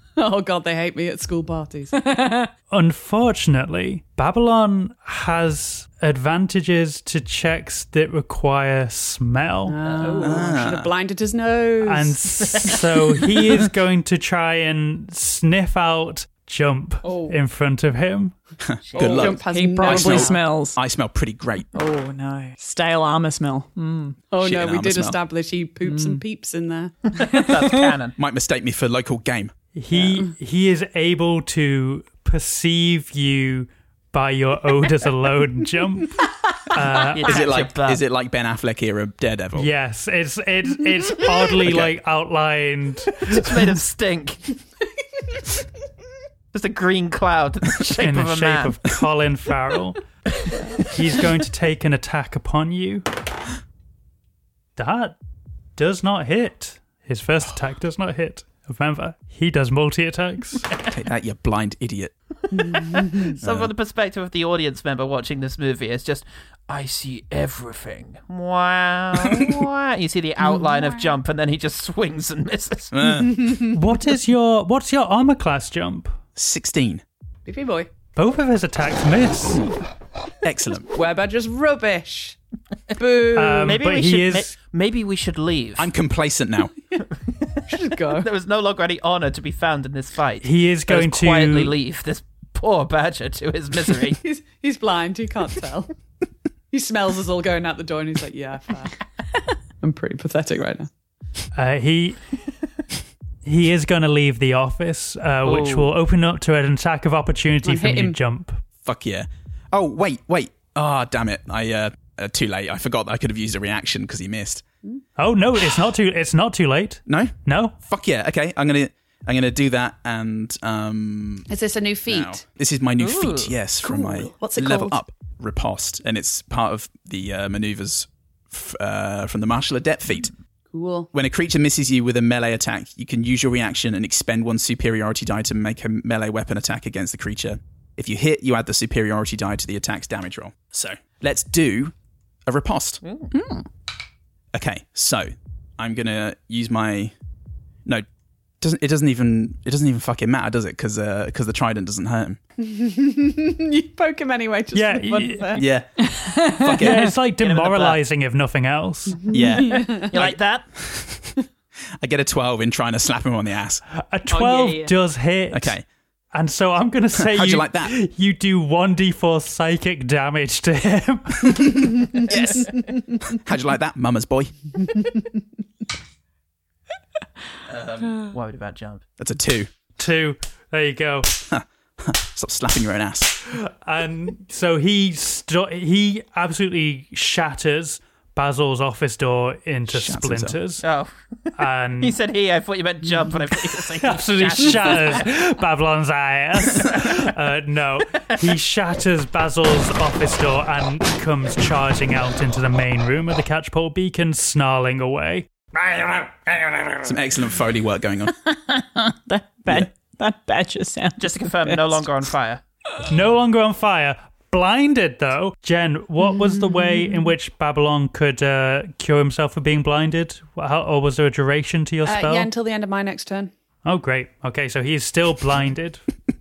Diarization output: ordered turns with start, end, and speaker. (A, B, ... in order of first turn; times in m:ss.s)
0:00.2-0:02.0 A
0:01.9-0:02.5 B
0:02.7-0:09.8 C
0:09.6-0:12.5 A
0:09.9-0:10.2 D
0:10.0-0:10.4 B
0:10.2-0:10.9 E
0:11.8-0:18.3 C
0:12.5-0:12.8 D
0:17.0-0:17.4 A
0:18.6-0:21.7 E
0:18.9-0:19.4 D
0:19.0-0:20.4 A
0:19.4-0:20.8 B
0:21.7-0:24.2 B
0:24.3-0:26.9 A
0:24.4-0:25.2 E
0:25.8-0:26.2 B
0:27.1-0:28.2 D
0:27.3-0:27.8 B
0:28.2-0:29.5 E
0:29.7-0:37.4 C
0:37.0-0:38.0 D
0:37.2-0:39.7 E
0:39.5-0:43.8 C
0:41.6-0:41.9 E
0:43.2-0:44.5 D
0:46.5-0:48.8 D
0:48.0-0:50.0 C
0:50.8-0:53.0 C
0:54.8-0:55.2 C
0:55.8-1:00.7 C
1:00.8-1:02.1 E
1:02.5-1:03.4 A
1:02.7-1:13.0 D
1:03.4-1:03.7 E
1:09.2-1:09.6 E
1:10.4-1:11.1 A
1:12.9-1:13.5 E
1:13.1-1:13.8 A
1:13.6-1:16.2 C
1:16.3-1:17.0 E
1:17.4-1:17.9 A
1:18.2-1:19.6 C
1:20.4-1:20.9 E
1:20.9-1:22.4 A
1:22.9-1:23.8 A
1:23.3-1:24.5 C
1:23.6-1:25.9 D
1:25.8-1:26.7 E
1:27.4-1:34.2 D
1:27.7-1:28.3 A
1:30.4-1:31.7 C
1:34.2-1:35.9 A
1:36.7-1:39.0 A
1:39.8-1:40.9 A
1:41.5-1:42.3 C
1:43.4-1:48.6 C
1:45.4-1:45.9 D
1:47.6-1:48.2 A
1:48.8-1:54.6 E
1:55.2-1:57.7 C
1:57.0-2:01.5 E
2:01.5-2:02.4 A
2:02.1-2:10.3 E
2:03.0-2:03.5 D
2:03.8-2:05.0 A
2:10.7-2:11.1 A
2:11.1-2:21.9 E
2:22.4-2:23.0 E
2:23.0-2:23.3 D
2:23.3-2:23.6 B
2:24.5-2:27.1 E
2:28.6-2:32.4 E
2:32.6-2:35.6 A
2:34.7-2:35.6 C
2:35.6-2:37.1 E
2:36.0-2:37.1 B
2:36.8-2:39.3 C
2:37.4-2:38.0 D
2:39.2-2:40.1 A
2:39.3-2:41.3 E
2:39.9-2:40.6 D
2:42.0-2:43.8 E
2:44.1-2:45.8 C
2:44.3-2:44.9 B
2:45.5-2:45.8 E
2:46.3-2:52.1 C
2:47.1-2:47.9 E
2:51.5-2:54.5 E
2:57.7-2:58.2 E
2:58.3-2:59.0 D
2:59.2-2:59.7 E
3:00.0-3:01.4 C
3:01.5-3:03.4 E
3:03.4-3:10.8 C
3:09.9-3:10.6 E
3:10.8-3:15.3 D
3:11.6-3:12.2 C
3:14.0-3:25.6 C
3:25.8-3:27.0 B
3:27.0-3:28.3 E
3:28.3-3:32.1 B
3:31.2-3:32.6 D
3:33.1-3:42.5 C
3:36.2-3:37.3 A
3:42.0-3:43.5 A
3:43.8-3:46.0 C